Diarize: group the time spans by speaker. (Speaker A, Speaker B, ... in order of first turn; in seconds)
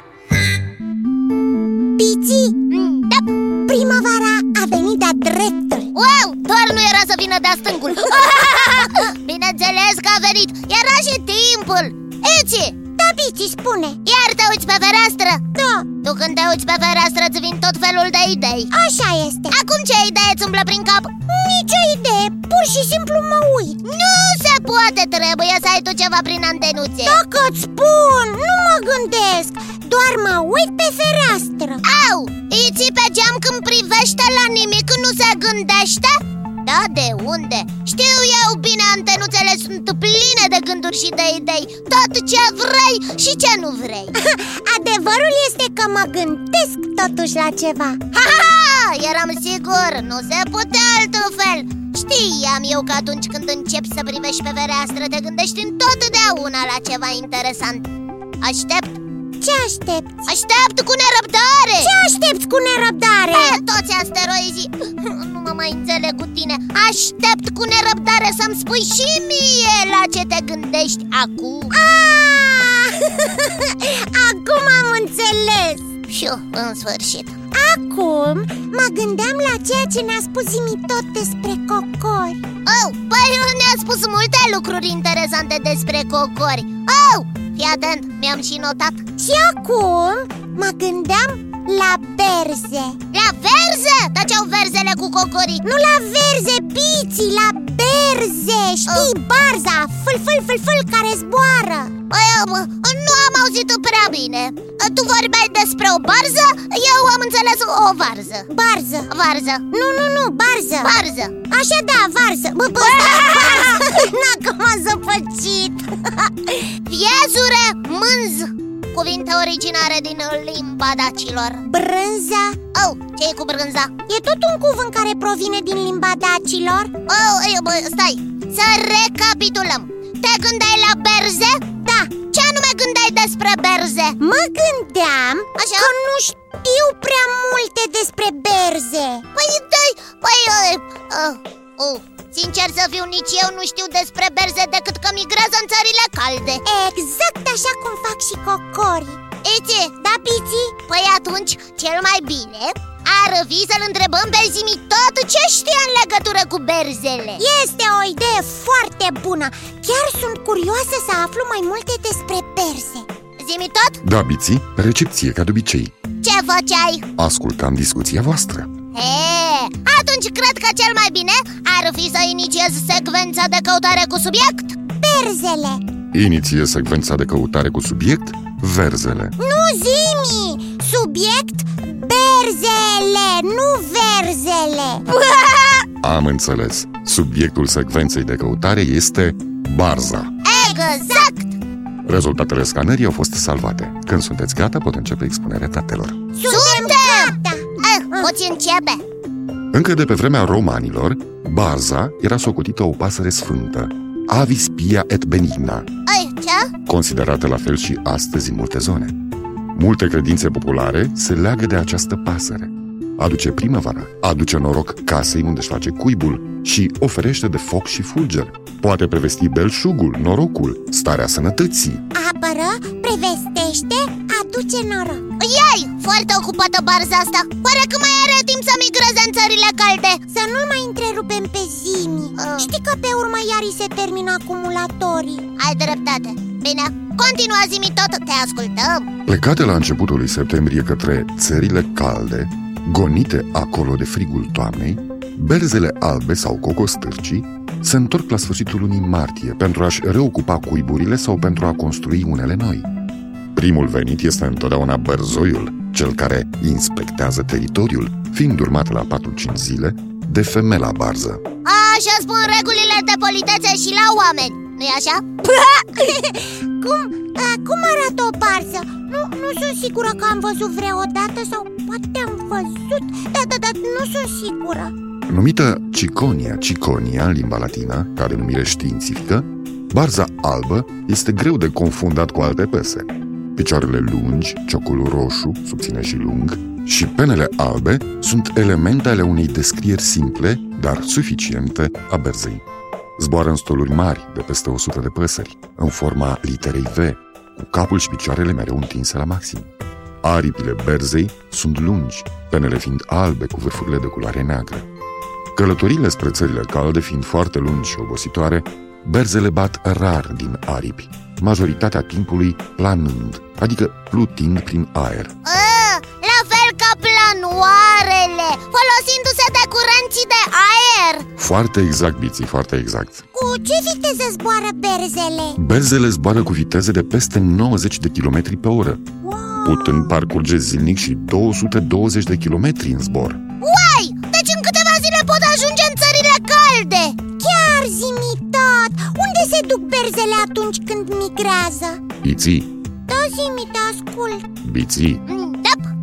Speaker A: 2.0-2.6, 3.6-5.9, 13.0-14.0, 15.5-15.9, 18.7-19.6, 21.3-23.8, 27.0-31.8, 44.1-48.0, 59.4-60.3, 61.8-63.6, 71.7-75.8, 77.5-82.4, 89.2-93.0, 95.6-101.9, 108.5-109.1, 109.7-111.0, 111.5-116.5, 121.6-122.6, 124.1-126.9, 131.8-132.1, 134.2-139.2, 146.6-149.2, 150.0-150.8, 157.4-163.1, 175.0-175.8, 179.4-185.1, 190.5-191.3, 196.3-198.3, 222.1-225.2, 230.3-235.4, 265.9-274.9, 323.3-325.6, 329.2-330.1, 337.4-342.0, 343.1-344.4
Speaker B: 2.7-3.2, 5.9-12.8, 14.0-15.4, 16.0-18.7, 19.5-21.1, 23.8-27.2, 31.8-44.1, 48.1-57.9, 58.4-59.0, 60.2-61.9, 63.3-71.7, 76.0-77.3, 82.7-89.0, 93.1-95.6, 98.8-99.1, 102.1-108.5, 109.1-109.7, 110.8-111.3, 112.8-114.0, 116.8-121.6, 122.7-123.9, 127.0-131.7, 132.3-134.2, 135.6-135.9, 139.3-146.6, 149.4-149.9, 150.8-157.4, 163.4-164.0, 166.2-167.1, 168.9-174.8, 185.1-185.8, 190.4-191.5, 196.5-199.0, 206.1-206.7, 225.4-230.2, 232.3-232.7, 235.6-239.1, 261.6-265.4, 315.4-321.3, 333.6-337.2, 345.2-345.9
Speaker C: 164.0-165.9, 167.2-168.7, 176.1-179.3, 186.0-190.3, 192.0-196.2, 199.7-205.9, 206.8-209.2, 209.7-222.0, 239.3-252.9, 253.5-261.4, 275.3-292.6, 293.2-299.7, 300.2-304.9, 305.5-315.3, 321.4-323.2, 325.6-329.0, 329.6-333.4, 342.2-342.7, 344.6-345.2